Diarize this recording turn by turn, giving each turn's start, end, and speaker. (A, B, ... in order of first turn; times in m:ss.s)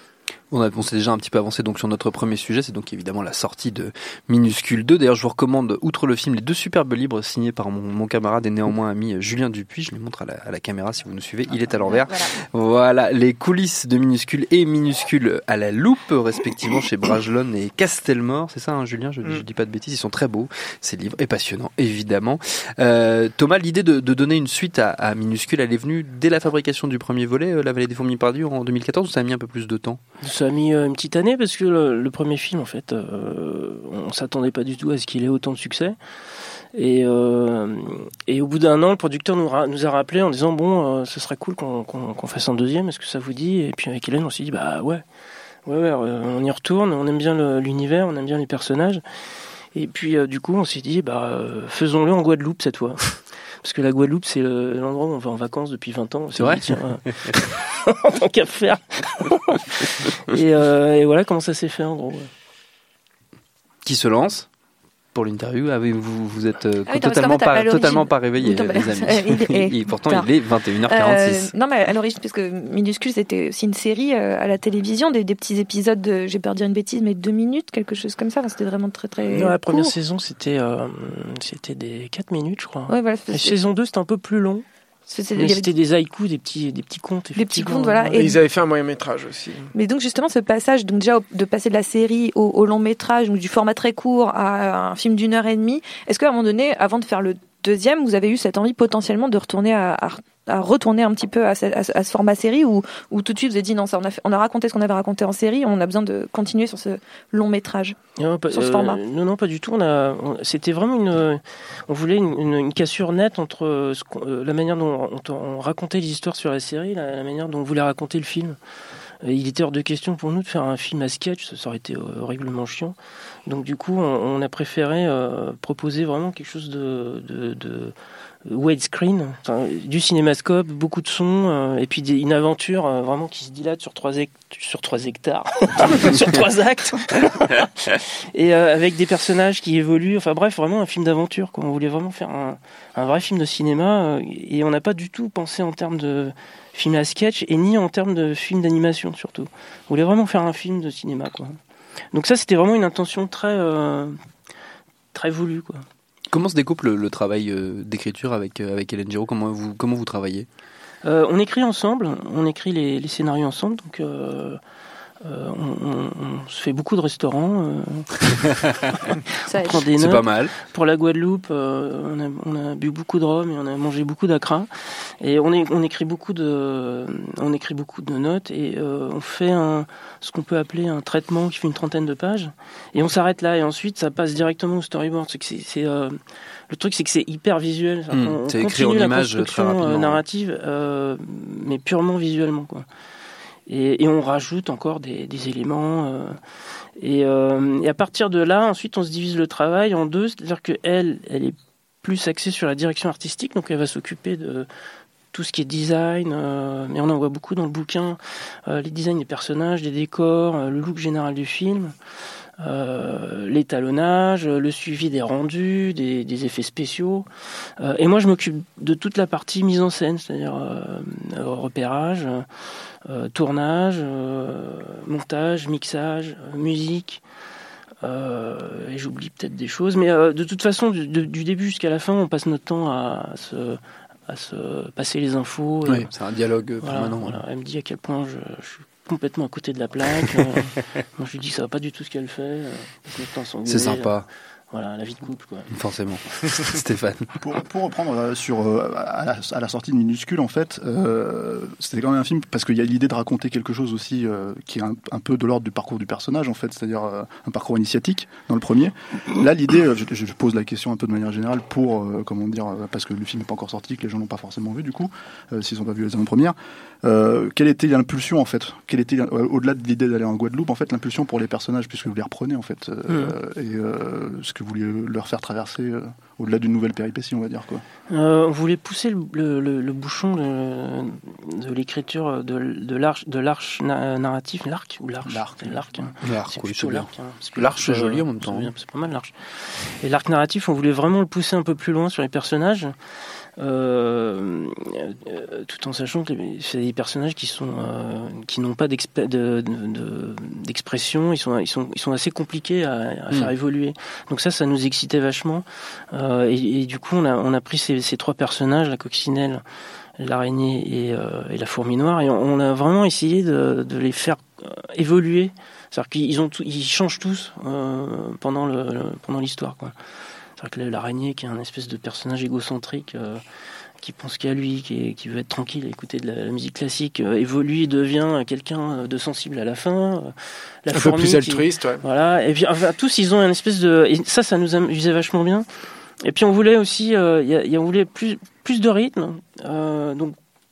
0:00.5-0:30.0 A
0:11.8-0:12.3 B
0:30.2-0:36.0 C
0:36.7-0:45.0 C
0:45.7-0:49.0 C
0:49.7-1:02.3 C
0:56.4-0:56.7 A
1:03.8-1:04.5 A
1:05.1-1:11.5 A
1:06.9-1:10.3 B
1:10.9-1:20.0 B
1:19.3-1:24.6 C
1:22.9-1:23.6 B
1:25.1-1:25.7 B
1:25.3-1:28.2 C
1:27.4-1:28.4 B
1:28.1-1:29.7 D
1:29.7-1:48.0 B
1:48.2-1:58.6 C
1:48.5-1:49.0 B
1:59.2-2:08.0 C
2:08.5-2:17.7 C
2:18.4-2:31.6 C
2:32.1-2:34.2 C
2:35.1-2:35.9 C
2:36.3-2:40.5 A
2:41.0-2:44.6 C
2:45.2-2:48.3 C
2:49.5-2:49.9 B
2:49.6-2:54.7 C
2:50.0-2:50.5 A
2:55.2-3:06.2 C
3:06.7-3:12.8 C
3:08.1-3:10.2 A
3:13.7-3:16.4 C
3:17.0-3:24.7 C
3:25.3-3:31.9 C
3:32.6-3:37.3 C
3:37.8-3:42.5 C
3:43.0-3:47.2 C
3:48.0-3:56.1 C
3:55.9-3:57.4 A
3:56.8-4:04.1 C
4:03.7-4:04.3 A
4:04.7-4:05.7 C
4:05.7-4:07.4 A
4:07.4-4:37.8 E
4:33.1-4:33.3 C
4:38.1-4:52.9 C
4:45.3-4:46.1 E
4:46.2-4:48.7 A
4:53.6-5:09.6 C
5:10.2-5:19.9 C
5:20.6-5:23.4 C
5:24.0-5:35.7 C
5:30.9-5:32.0 D
5:36.2-5:40.4 C